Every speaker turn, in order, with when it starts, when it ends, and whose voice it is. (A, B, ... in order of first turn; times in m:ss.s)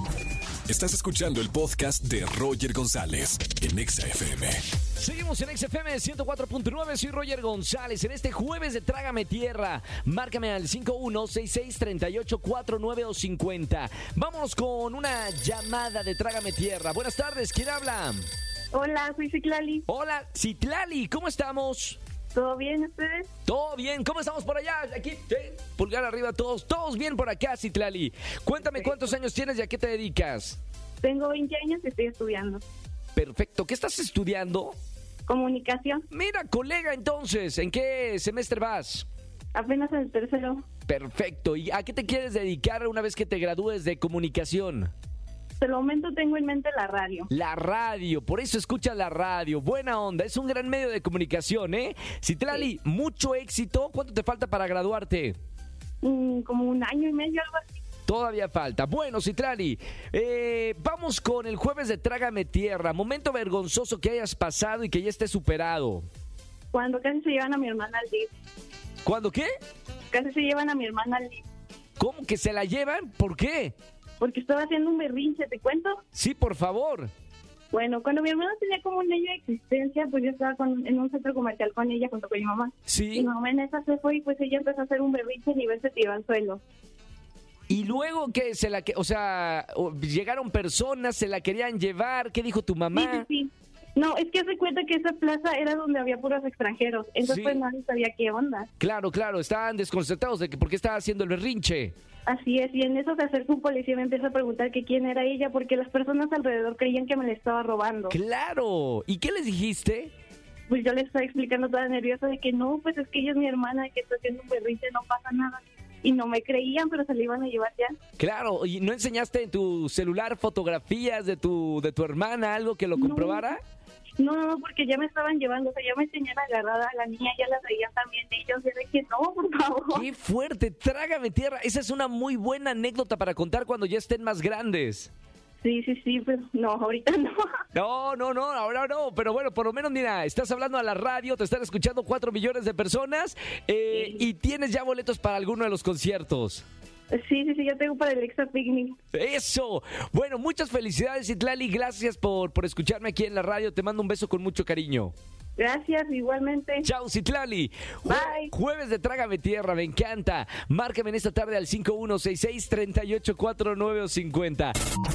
0:00.7-0:04.6 A
0:05.0-0:18.2 B
0:18.7-0:19.8 C
0:19.9-0:22.0 B
0:22.3-0:23.3 C
0:23.5-0:30.6 B
0:31.0-0:32.6 C
0:33.2-0:34.7 B
0:35.2-0:36.0 C
0:36.1-0:39.1 B
0:39.5-0:40.6 C
0:40.9-0:44.9 B
0:45.6-0:47.3 C
0:47.3-0:55.4 B
0:56.0-0:57.8 C
0:58.1-1:06.0 B
1:06.7-1:08.3 C
1:09.0-1:09.5 B
1:10.1-1:11.4 C
1:12.0-1:13.7 B
1:14.2-1:16.0 C
1:16.1-1:17.1 B
1:17.7-1:26.6 C
1:22.8-1:23.3 B
1:27.7-1:33.2 B
1:32.9-1:38.7 C
1:37.2-1:37.6 B
1:38.8-1:41.9 B
1:42.2-1:48.2 C
1:48.1-1:50.1 B
1:50.7-1:57.9 C
1:58.2-2:03.6 B
2:03.0-2:03.6 C
2:04.2-2:10.1 C
2:09.9-2:15.1 B
2:15.6-2:17.4 C
2:17.7-2:26.6 B
2:23.9-2:24.2 C
2:27.1-2:29.0 C
2:29.1-2:35.1 B
2:35.6-2:36.9 C
2:36.8-2:44.7 B
2:38.1-2:38.5 C